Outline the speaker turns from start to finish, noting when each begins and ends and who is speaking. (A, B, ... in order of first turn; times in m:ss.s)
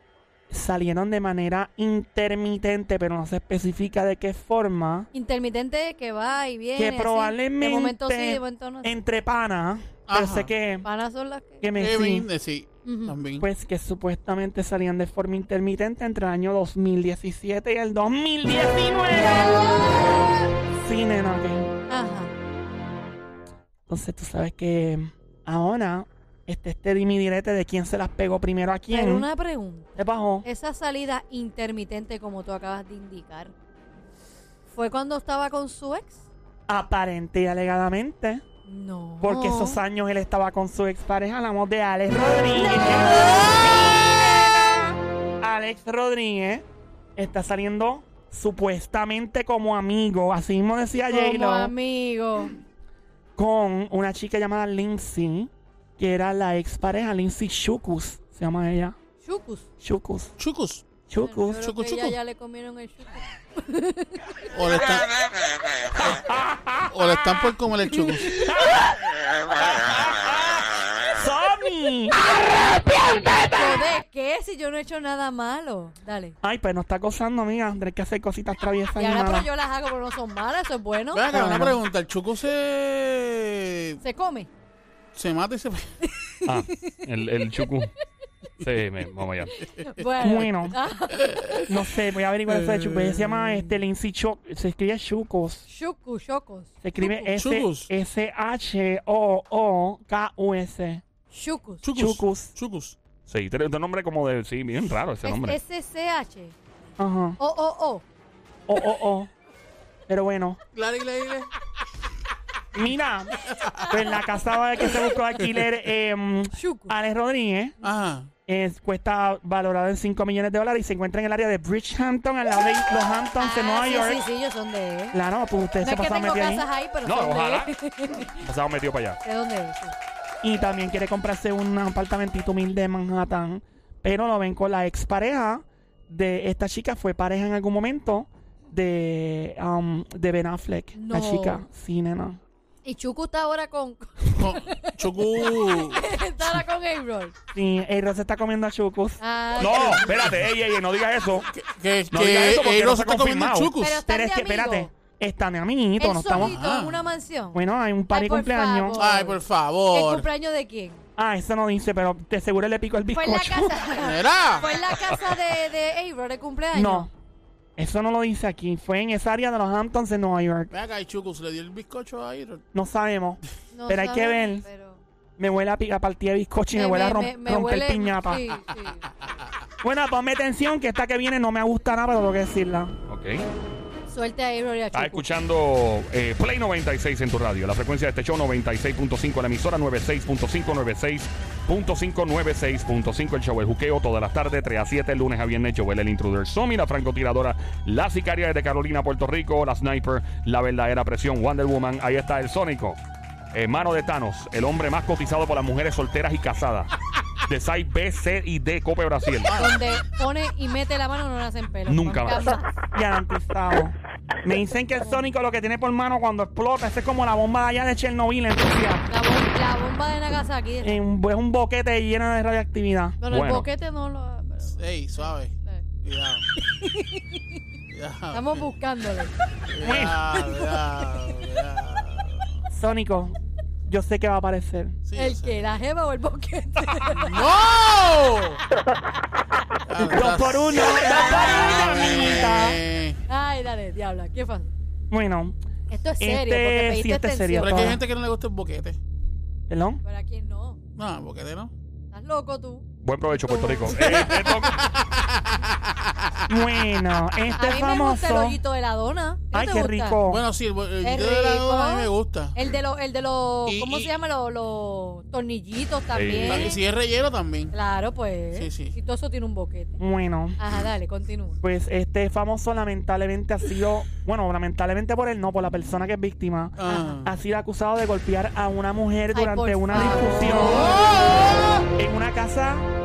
0:00.5-0:05.1 A
0:05.1-0:09.0 B
0:06.8-0:10.9 A
0:10.1-0:10.5 C
0:10.8-0:11.7 B
0:11.6-0:12.3 A
0:11.8-0:13.4 C
0:12.8-0:13.2 B
0:13.4-0:21.7 A
0:19.4-0:20.4 B
0:21.9-0:22.3 B
0:23.9-0:29.3 A
0:28.9-0:33.5 B
0:30.0-0:30.5 A
0:34.7-0:36.3 B
0:36.7-0:38.4 A
0:38.6-0:39.8 B
0:39.2-0:46.6 A
0:42.9-0:43.6 B
0:47.2-0:51.7 A
0:51.1-0:52.5 B
0:53.4-0:59.0 A
0:59.2-0:59.7 B
0:59.8-1:00.3 A
1:00.4-1:00.9 C
1:01.1-1:01.7 A
1:01.2-1:04.2 B
1:01.6-1:02.1 C
1:04.5-1:05.2 C
1:05.9-1:07.5 A
1:06.9-1:08.4 C
1:08.2-1:09.0 A
1:09.7-1:10.4 A
1:11.0-1:12.2 A
1:13.4-1:16.4 B
1:16.4-1:19.5 A
1:19.0-1:21.3 B
1:21.1-1:24.0 C
1:21.3-1:21.8 A
1:24.0-1:24.5 B
1:25.1-1:25.9 C
1:26.0-1:27.0 B
1:26.4-1:27.9 D
1:28.6-1:29.6 D
1:29.5-1:31.6 B
1:30.2-1:30.8 A
1:31.1-1:31.6 C
1:31.7-1:35.7 A
1:32.5-1:33.7 C
1:35.7-1:36.7 B
1:36.8-1:41.0 A
1:37.1-1:37.9 C
1:41.3-1:41.8 B
1:41.8-1:43.0 C
1:42.0-1:42.6 A
1:43.2-1:45.6 D
1:45.2-1:46.6 B
1:47.0-1:47.4 A
1:47.4-1:48.0 B
1:48.7-1:49.3 A
1:50.1-1:50.6 A
1:50.7-1:51.5 C
1:52.7-1:57.8 A
1:53.5-1:53.9 C
1:56.5-1:57.0 B
1:57.8-1:58.3 C
1:58.5-2:04.2 A
2:03.4-2:05.2 B
2:05.1-2:06.7 A
2:05.8-2:08.4 B
2:07.0-2:07.7 D
2:08.4-2:09.2 D
2:09.2-2:10.0 B
2:10.4-2:22.4 A
2:20.9-2:21.6 B
2:22.8-2:27.3 B
2:24.4-2:26.1 C
2:27.5-2:29.2 A
2:29.2-2:30.4 B
2:29.6-2:31.5 D
2:31.5-2:34.0 C
2:32.1-2:33.7 D
2:33.8-2:34.9 B
2:34.1-2:36.6 A
2:36.0-2:41.0 B
2:36.3-2:37.1 C
2:37.5-2:39.0 A
2:39.0-2:40.3 C
2:41.2-2:43.8 A
2:43.1-2:47.1 B
2:44.0-2:44.7 C
2:46.7-2:47.1 A
2:47.8-2:50.7 A
2:50.7-2:52.6 C
2:52.7-2:54.6 A
2:53.7-2:55.0 B
2:55.4-2:58.4 A
2:56.7-2:59.1 B
2:59.8-3:03.0 A
3:03.1-3:03.5 D
3:04.1-3:05.2 B
3:04.9-3:23.0 D
3:23.5-3:26.9 D
3:27.5-3:29.6 D
3:29.4-3:30.0 C
3:29.6-3:32.7 B
3:31.9-3:32.6 D
3:32.9-3:39.1 A
3:39.1-3:41.0 B
3:40.8-3:43.2 A
3:43.2-3:45.8 B
3:43.3-3:43.7 D
3:44.7-3:46.4 C
3:46.6-3:47.4 B
3:47.9-3:48.7 C
3:48.3-3:49.3 B
3:49.7-3:52.5 C
3:49.8-3:50.2 A
3:50.3-3:51.1 B
3:52.7-3:53.4 A
3:53.9-3:55.0 A
3:55.0-3:55.7 C
3:55.2-3:57.5 B
3:57.1-3:58.6 C
3:59.9-4:03.2 C
4:00.1-4:02.8 A
4:03.3-4:04.7 B
4:05.1-4:05.6 A
4:05.9-4:08.0 B
4:06.2-4:08.0 A
4:07.6-4:09.0 C
4:09.7-4:10.0 A
4:10.0-4:10.8 B
4:11.0-4:11.7 C
4:12.1-4:14.5 B
4:13.0-4:14.8 D
4:14.0-4:16.2 C
4:16.5-4:18.6 A
4:17.6-4:20.2 B
4:19.5-4:20.4 A
4:20.3-4:22.6 C
4:21.0-4:26.8 B
4:23.7-4:24.1 C
4:26.1-4:26.7 D
4:26.4-4:27.7 C
4:27.7-4:30.0 B
4:28.5-4:29.0 C
4:30.0-4:30.6 A
4:30.6-4:31.6 B
4:31.6-4:41.0 A
4:36.8-4:37.4 C
4:39.3-4:41.0 B
4:40.5-4:41.6 C
4:41.9-4:42.9 A